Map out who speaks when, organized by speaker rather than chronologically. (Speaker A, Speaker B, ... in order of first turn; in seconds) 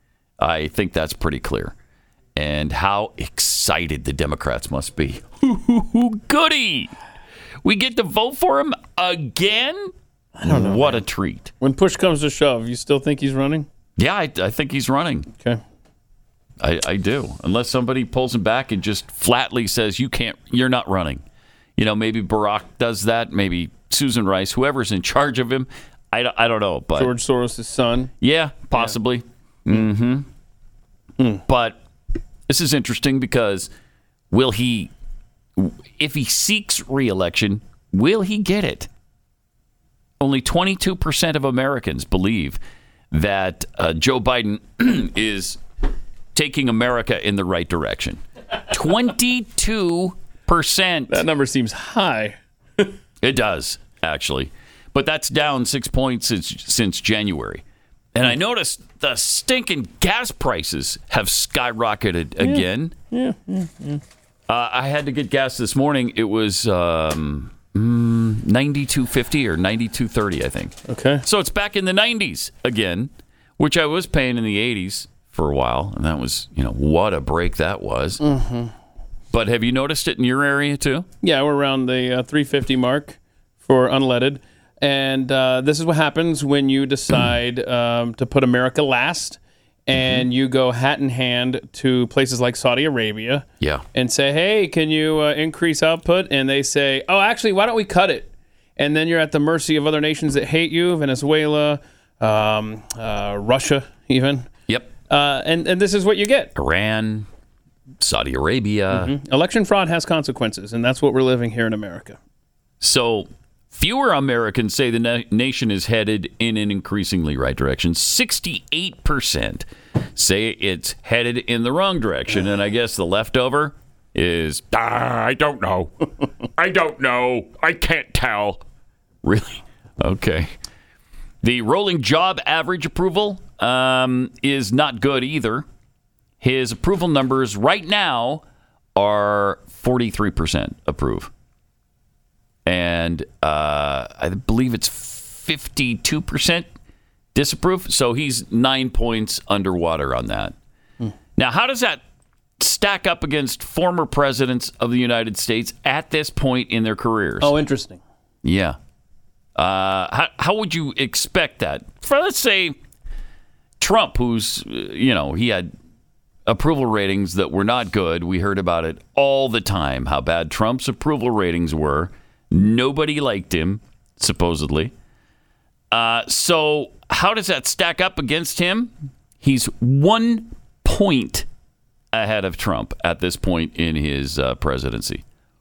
Speaker A: 0.4-1.7, 2.4-6.9, 7.6-9.9, 10.4-11.5, 14.0-15.3, 16.6-21.2, 21.8-27.1, 28.2-30.3, 31.5-31.8, 32.5-33.7, 34.3-34.9, 35.5-38.9, 40.2-42.6, 43.1-45.6, 46.3-48.2, 48.7-51.2, 53.2-57.6, 58.1-62.9, 64.5-78.2, 79.3-81.1, 89.9-90.2, 106.5-107.3, 108.0-109.1, 112.8-125.9, 126.6-128.6, 129.2-130.5, 131.4-135.6, 136.4-138.4, 138.9-141.3, 142.7-146.7, 147.3-150.5, 151.4-152.0, 152.6-157.5, 158.4-158.8, 159.6-162.8, 163.8-165.7, 166.4-174.9, 175.9-181.4, 182.1-185.2
Speaker B: 10.4-11.0, 11.6-13.7, 26.9-28.1, 51.1-52.9, 62.4-64.0, 70.9-71.2, 78.2-78.7, 81.2-104.5, 105.1-106.5, 108.9-112.2, 157.4-158.0